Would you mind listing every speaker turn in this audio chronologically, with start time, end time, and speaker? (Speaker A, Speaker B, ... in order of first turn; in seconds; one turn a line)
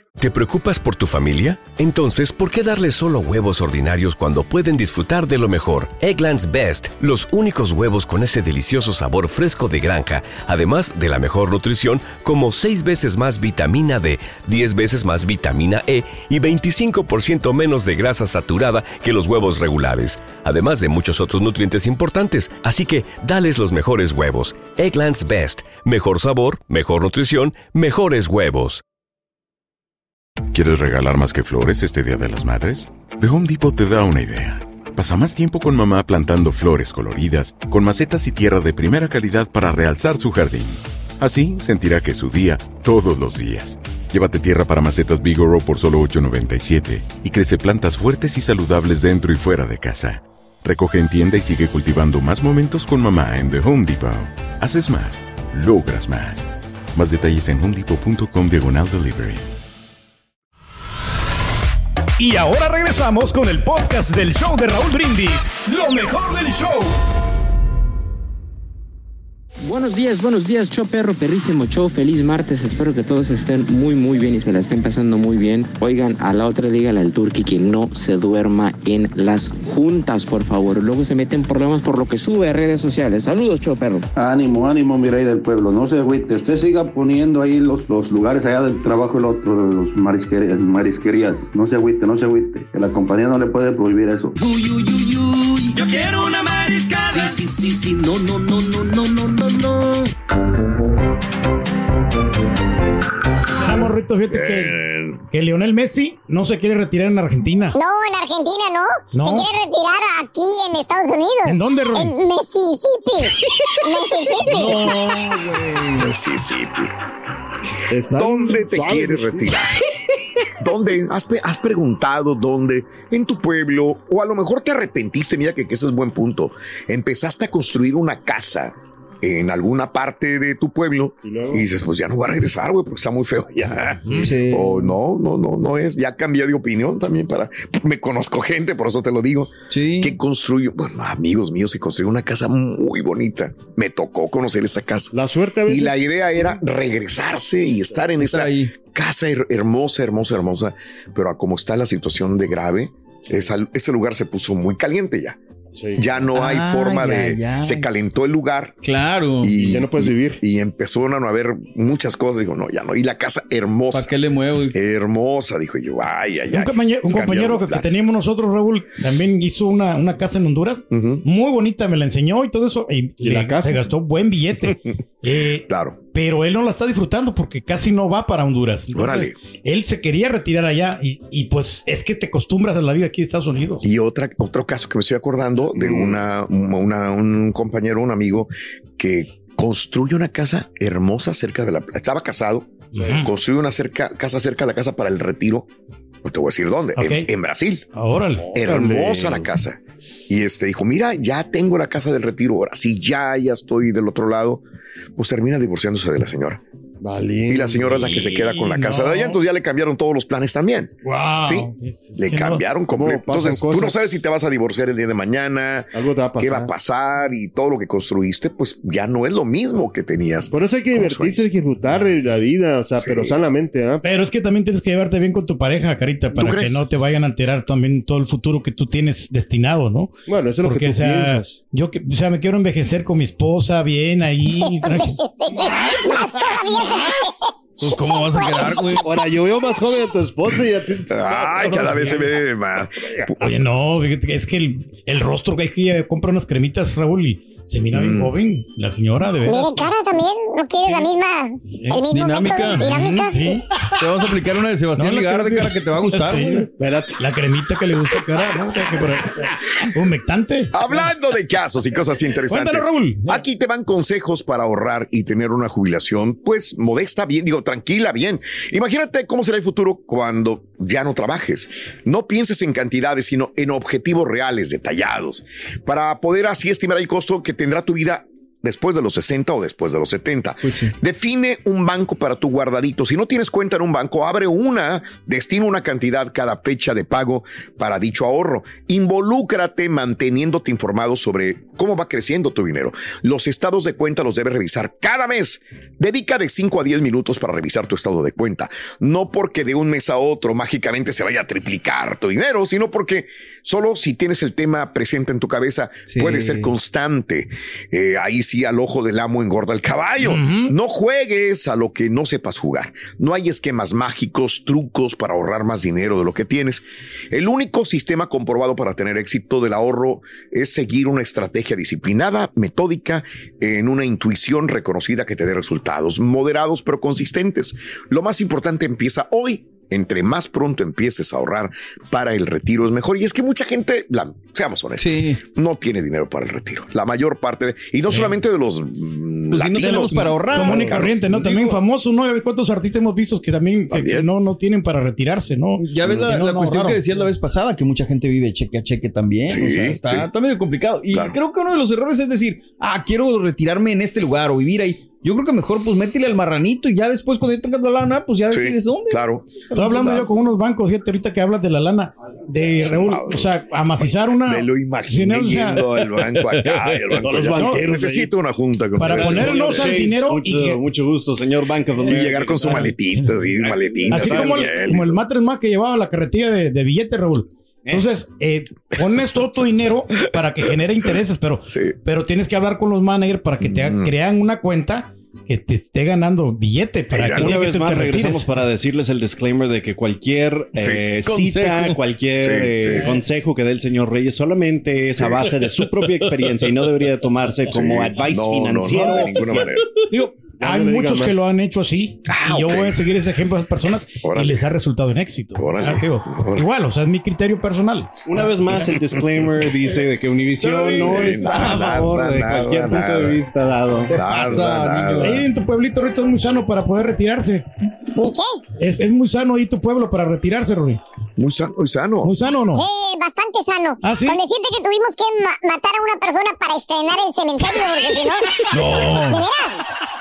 Speaker A: 0.2-28.8
Speaker B: 30.5-59.5
Speaker C: 62.2-66.9
Speaker D: 69.6-84.0
Speaker E: 84.2-94.4
Speaker F: 94.4-100.1
Speaker G: 103.6-104.8
Speaker H: 104.3-105.2
Speaker G: 105.3-107.8
Speaker I: 107.7-115.1
Speaker G: 109.1-109.5
Speaker G: 111.4-112.2
Speaker J: 114.4-116.1
Speaker H: 116.0-116.9
Speaker K: 117.9-119.6
Speaker H: 118.1-119.8
Speaker H: 120.6-145.1
Speaker K: 131.2-131.7
Speaker J: 134.2-134.9
Speaker J: 139.7-140.2
Speaker K: 145.1-146.1
Speaker H: 145.7-155.4
Speaker J: 148.2-148.7
Speaker K: 155.7-156.0
Speaker H: 156.0-158.8
Speaker J: 156.3-157.9
Speaker J: 158.8-159.6
Speaker H: 159.4-164.1
Speaker K: 159.6-160.4
Speaker J: 163.9-164.7
Speaker H: 164.7-167.9
Speaker G: 166.5-183.8
Speaker H: 170.9-171.2
Speaker K: 173.2-173.8
Speaker H: 175.7-176.0
Speaker H: 178.9-179.3
Speaker H: 183.8-195.7
Speaker K: 185.8-186.2
Speaker G: 192.9-193.3
Speaker H: 196.2-197.8
Speaker G: 196.9-197.3
Speaker G: 197.9-198.5
Speaker H: 198.5-204.6
Speaker K: 198.6-199.4
Speaker H: 205.2-206.6
Speaker K: 207.0-208.2
Speaker H: 207.5-221.4
Speaker G: 208.2-209.4
Speaker G: 211.0-212.6
Speaker K: 212.9-214.2
Speaker K: 215.9-216.7
Speaker K: 220.5-224.0
Speaker H: 223.0-223.3
Speaker G: 224.0-235.2
Speaker H: 226.3-226.8
Speaker K: 230.3-231.6
Speaker I: 234.5-239.0
Speaker J: 237.8-239.1
Speaker K: 239.0-242.4
Speaker H: 241.1-243.4
Speaker G: 241.7-242.2
Speaker G: 243.4-249.9
Speaker H: 247.9-248.3
Speaker I: 249.4-253.5
Speaker J: 252.1-253.3
Speaker G: 252.8-253.7
Speaker J: 254.0-256.6
Speaker G: 254.9-261.1
Speaker K: 256.8-257.1
Speaker H: 260.7-341.4
Speaker G: 262.5-263.4
Speaker J: 280.6-280.9
Speaker J: 306.1-306.7
Speaker G: 310.2-310.7
Speaker J: 335.0-335.4
Speaker J: 339.5-341.8
Speaker G: 340.5-347.0
Speaker H: 343.9-344.3
Speaker J: 345.8-360.2
Speaker H: 349.5-350.3
Speaker H: 351.1-351.4
Speaker H: 358.5-360.2
Speaker G: 359.7-365.9
Speaker H: 362.8-363.5
Speaker H: 364.4-370.0
Speaker J: 366.5-367.0
Speaker K: 367.2-368.3
Speaker G: 367.5-367.8
Speaker G: 368.9-370.8
Speaker L: 369.1-372.9
Speaker H: 372.0-375.1
Speaker L: 373.6-374.9
Speaker G: 374.1-388.5
Speaker H: 381.7-381.9
Speaker H: 383.6-384.1
Speaker H: 387.1-387.5
Speaker L: 387.4-399.7
Speaker H: 390.8-391.1
Speaker J: 391.2-392.0
Speaker H: 392.4-393.1
Speaker H: 397.7-399.9
Speaker G: 400.1-408.1
Speaker K: 400.6-401.5
Speaker H: 402.3-403.1
Speaker H: 404.2-404.6
Speaker H: 405.6-406.7
Speaker L: 408.2-414.2
Speaker H: 410.8-413.4
Speaker H: 414.1-415.4
Speaker J: 414.2-415.4
Speaker G: 415.2-417.6
Speaker I: 418.1-418.6
Speaker G: 418.8-421.0
Speaker H: 421.4-422.3
Speaker G: 422.2-422.9
Speaker I: 422.7-429.8
Speaker G: 424.0-424.4
Speaker G: 428.7-429.4